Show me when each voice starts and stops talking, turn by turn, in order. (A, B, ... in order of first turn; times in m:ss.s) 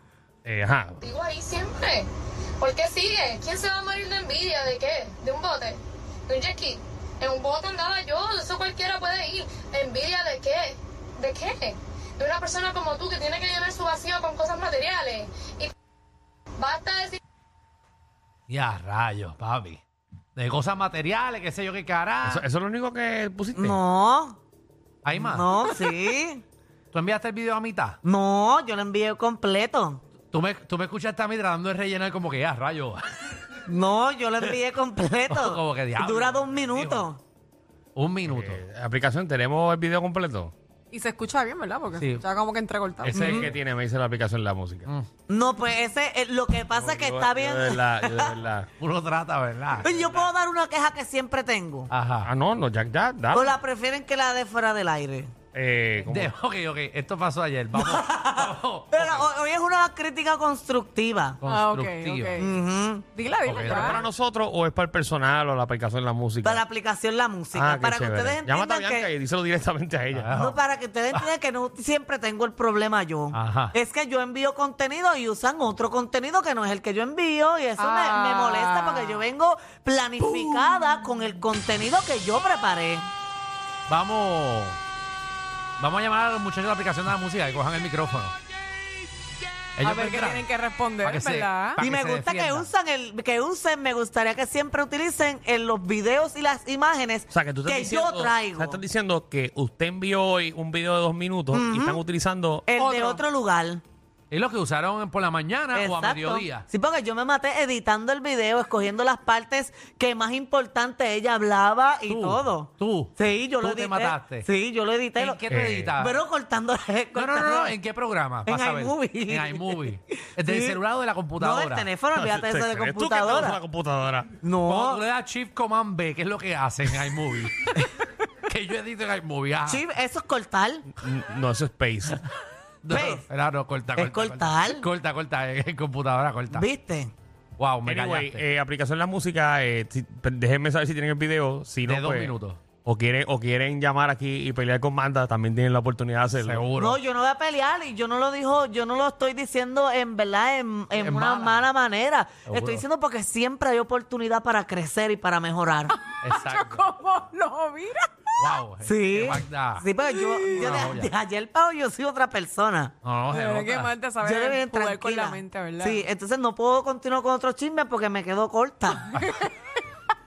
0:00.4-0:01.0 A
0:01.0-0:15.7 B
0:16.6-0:17.2 B
0:18.5-0:19.8 C
0:20.4-0:22.5 C
0:22.2-0:23.8 A
0:23.6-0:24.4 D
0:25.0-0:25.5 C
0:25.2-0:26.4 D
0:26.9-0:28.0 C
0:28.0-0:30.0 D
0:30.3-0:33.4 C
0:33.7-0:37.2 D
0:35.3-0:37.1 C
0:38.0-0:38.6 C
0:38.3-0:40.5 A
0:40.9-0:43.2 E
0:41.9-0:42.2 C
0:43.0-0:43.6 C
0:43.1-0:43.5 D
0:43.1-0:44.9 A
0:45.3-0:48.3 D
0:46.7-0:48.7 A
0:48.8-0:50.3 C
0:49.8-0:51.9 D
0:51.9-0:52.3 C
0:52.2-0:53.5 A
0:53.3-0:55.3 D
0:55.5-0:56.3 A
0:56.0-0:59.3 C
0:57.7-1:01.4 D
1:01.4-1:02.4 C
1:01.4-1:02.6 E
1:02.4-1:03.0 D
1:03.1-1:04.0 E
1:03.4-1:04.0 C
1:03.7-1:06.6 A
1:06.4-1:09.1 D
1:07.5-1:10.3 A
1:10.1-1:10.6 C
1:10.3-1:23.1 D
1:13.3-1:13.7 C
1:17.8-1:19.2 E
1:23.9-1:24.8 C
1:25.8-1:28.4 C
1:29.8-1:30.5 C
1:29.8-1:31.8 E
1:31.0-1:32.7 C
1:31.8-1:38.8 D
1:37.3-1:42.7 A
1:41.5-1:42.0 D
1:42.7-1:43.8 D
1:42.8-1:43.2 C
1:44.3-1:46.6 C
1:45.7-1:55.4 D
1:52.1-1:54.5 C
1:55.2-1:56.2 C
1:55.5-1:55.9 A
1:56.0-1:57.7 D
1:57.2-2:01.9 C
1:58.5-2:00.8 D
2:01.4-2:03.6 D
2:02.2-2:04.3 A
2:04.4-2:05.0 D
2:04.6-2:07.7 C
2:08.5-2:09.8 C
2:09.7-2:10.8 D
2:11.0-2:12.2 A
2:12.8-2:16.7 C
2:12.9-2:13.2 D
2:14.0-2:14.9 D
2:16.5-2:17.1 D
2:17.6-2:18.5 C
2:17.8-2:26.7 A
2:21.8-2:22.6 C
2:26.3-2:27.0 C
2:26.8-2:35.9 D
2:30.9-2:31.7 C
2:32.5-2:32.8 C
2:36.0-2:38.5 E
2:36.2-2:36.9 C
2:38.4-2:39.8 C
2:38.8-2:42.9 D
2:40.2-2:40.4 E
2:40.5-2:41.1 C
2:43.0-2:43.9 C
2:43.3-2:46.0 E
2:44.2-2:49.2 D
2:49.0-2:49.4 E